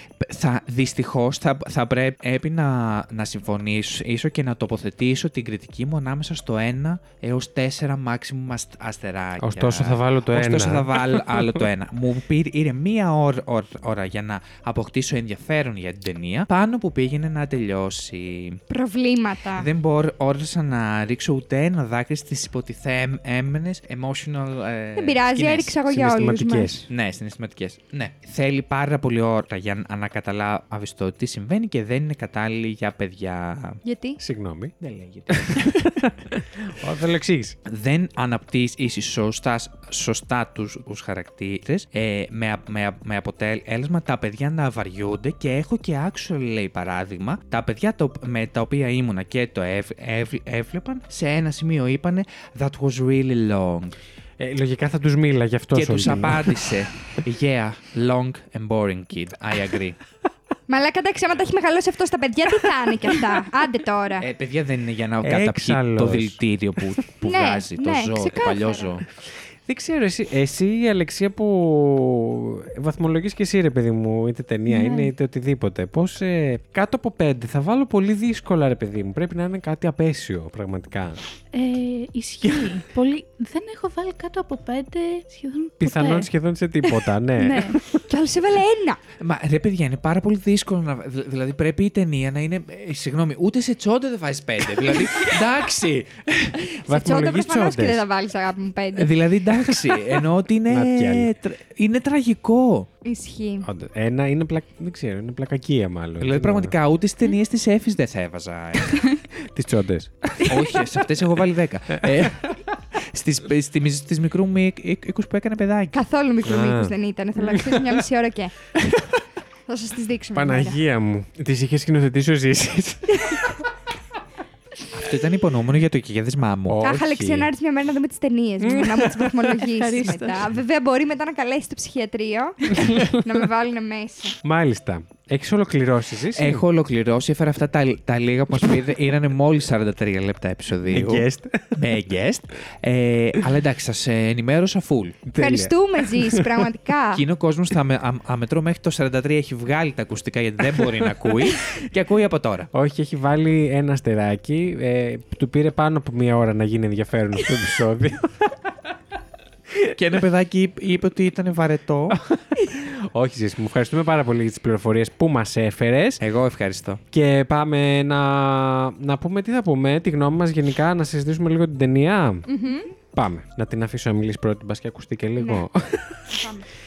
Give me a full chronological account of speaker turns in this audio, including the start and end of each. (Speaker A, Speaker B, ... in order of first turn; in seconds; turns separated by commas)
Speaker A: 0.2-18.6, Speaker B: 9.4-11.6, Speaker C: 18.7-19.7, Speaker A: 19.6-25.8, Speaker C: 24.9-26.8, Speaker B: 25.9-26.9, Speaker A: 26.9-33.8, Speaker C: 33.8-34.2, Speaker B: 34.2-34.7, Speaker A: 34.8-36.1, Speaker B: 35.3-37.6, Speaker A: 37.6-53.9, Speaker B: 54.4-56.8, Speaker A: 55.7-60.0, Speaker C: 60.7-64.2, Speaker A: 64.2-69.0, Speaker B: 65.2-66.4, Speaker C: 67.2-68.9, Speaker B: 69.7-81.2, Speaker D: 74.7-75.1, Speaker D: 81.5-86.3, Speaker B: 85.8-88.0, Speaker D: 87.3-87.8, Speaker C: 87.9-89.0, Speaker A: 89.2-96.7, Speaker C: 96.8-99.1, Speaker B: 96.9-98.0, Speaker A: 98.9-102.9, Speaker B: 100.7-101.3, Speaker C: 103.0-103.7, Speaker B: 103.6-106.7, Speaker A: 106.2-109.1, Speaker B: 109.5-110.5, Speaker A: 110.4-116.0, Speaker B: 112.0-112.3, Speaker C: 115.9-118.6, Speaker B: 116.4-116.9, Speaker B: 117.5-117.8, Speaker C: 119.7-120.8, Speaker B: 120.3-123.5, Speaker C: 123.1-123.6, Speaker A: 124.9-126.8, Speaker B: 126.7-127.5, Speaker C: 126.8-134.3, Speaker B: 128.6-129.5, Speaker D: 129.7-130.5, Speaker B: 132.7-133.2, Speaker B: 134.4-136.6, Speaker A: 136.3-145.2, Speaker B: 140.9-141.8, Speaker B: 145.2-146.4, Speaker C: 145.4-147.2, Speaker A: 147.1-152.7, Speaker B: 150.8-151.1, Speaker B: 152.7-158.5, Speaker A: 159.7-162.2, Speaker B: 162.1-166.2, Speaker A: 166.2-167.0, Speaker B: 167.1-172.5, Speaker C: 172.5-172.9, Speaker B: 173.1-176.4, Speaker C: 175.4-175.7, Speaker C: 176.3-176.6